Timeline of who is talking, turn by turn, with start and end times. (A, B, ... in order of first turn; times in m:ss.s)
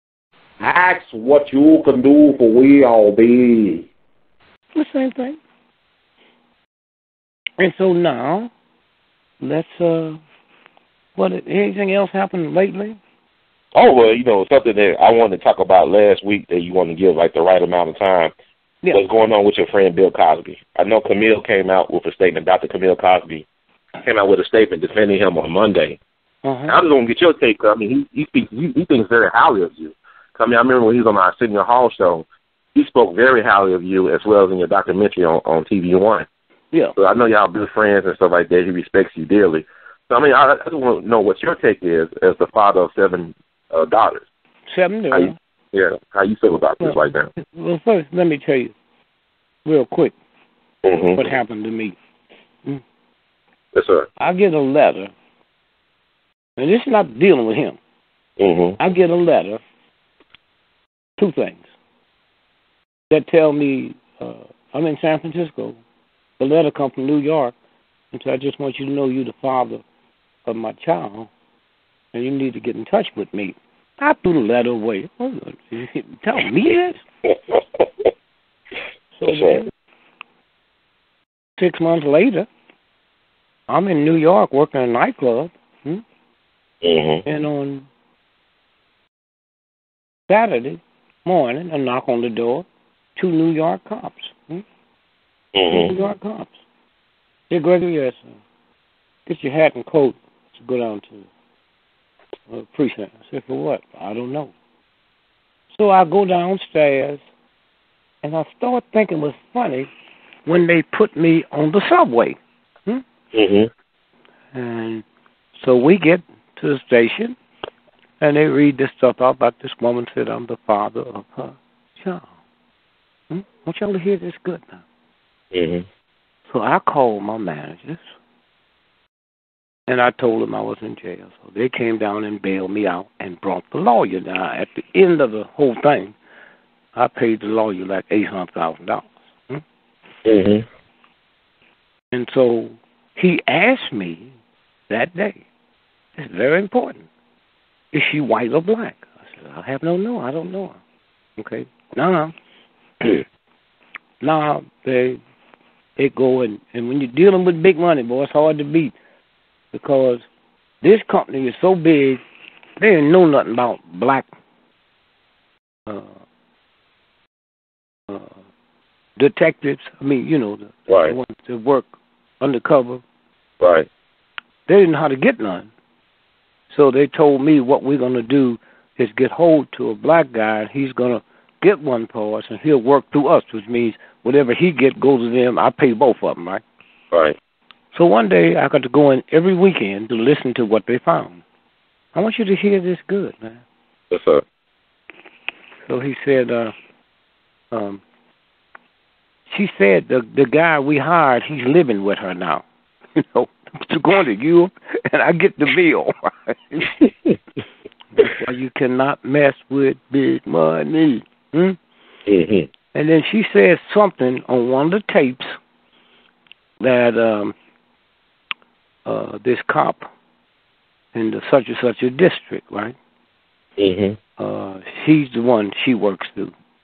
0:00.6-0:03.8 A
0:04.8-0:05.4 B
0:07.6-0:08.5 B
0:09.4-0:10.2 B
0:11.2-0:13.0 B
0:13.7-0:18.3 C
0:18.9-0:23.4 C
0:24.0-0:26.0 C
0:26.4-0:26.7 B
0:26.7-0:36.2 C
0:37.0-0:44.2 C
0:44.7-0:45.4 B
0:45.1-0:47.3 C
0:46.8-0:48.7 B
0:49.6-0:50.2 B
0:50.8-0:51.2 C
0:51.1-0:52.0 B
0:53.7-0:54.1 C
0:54.2-0:55.1 B
0:56.6-0:57.8 B
0:58.4-0:58.8 C
0:58.8-0:59.6 B
1:01.2-1:01.6 B
1:03.1-1:05.8 B
1:06.4-1:07.5 B
1:08.1-1:09.8 B
1:10.4-1:11.3 B
1:12.1-1:17.0 B
1:17.2-1:18.1 C
1:19.2-1:19.7 B
1:19.2-1:19.6 C
1:21.6-1:22.5 B
1:23.7-1:26.0 B
1:26.8-1:27.2 C
1:27.2-1:27.9 B
1:30.3-1:32.6 B
1:33.2-1:34.6 B
1:35.5-1:35.9 C
1:35.7-1:36.5 B
1:37.5-1:38.2 B
1:39.3-1:41.2 B
1:42.5-1:44.5 B
1:45.7-1:47.2 B
1:48.2-1:49.9 B
1:50.4-1:53.0 B
1:53.3-1:53.7 C
1:54.5-1:55.0 B
1:55.6-1:57.4 B
1:58.2-2:02.3 B
2:03.3-2:04.8 B
2:05.5-2:05.8 C
2:06.5-2:08.0 B
2:09.9-2:16.2 B
2:16.9-2:19.6 B
2:20.2-2:20.6 C
2:22.1-2:24.3 B
2:24.9-2:25.4 B
2:26.2-2:27.0 B
2:27.9-2:30.8 B
2:31.4-2:32.3 B
2:34.2-2:35.2 B
2:36.0-2:38.9 B
2:39.7-2:40.2 B
2:40.8-2:42.2 B
2:42.8-2:44.3 B
2:45.9-2:46.1 B
2:49.2-2:51.9 B
2:50.9-2:51.1 C
2:52.4-2:53.0 B
2:53.6-2:53.9 C
2:54.7-2:55.7 B
2:56.7-3:06.6 B
3:07.1-3:07.4 C
3:07.9-3:11.4 B
3:12.1-3:13.6 B
3:14.1-3:14.4 C
3:15.9-3:16.7 B
3:17.7-3:18.0 B
3:19.5-3:22.6 B
3:23.2-3:26.9 B
3:28.2-3:31.8 B
3:32.3-3:32.7 C
3:32.9-3:35.6 B
3:36.8-3:37.5 B
3:39.0-3:40.1 B
3:41.1-3:43.0 B
3:43.8-3:44.2 C
3:44.4-3:46.5 B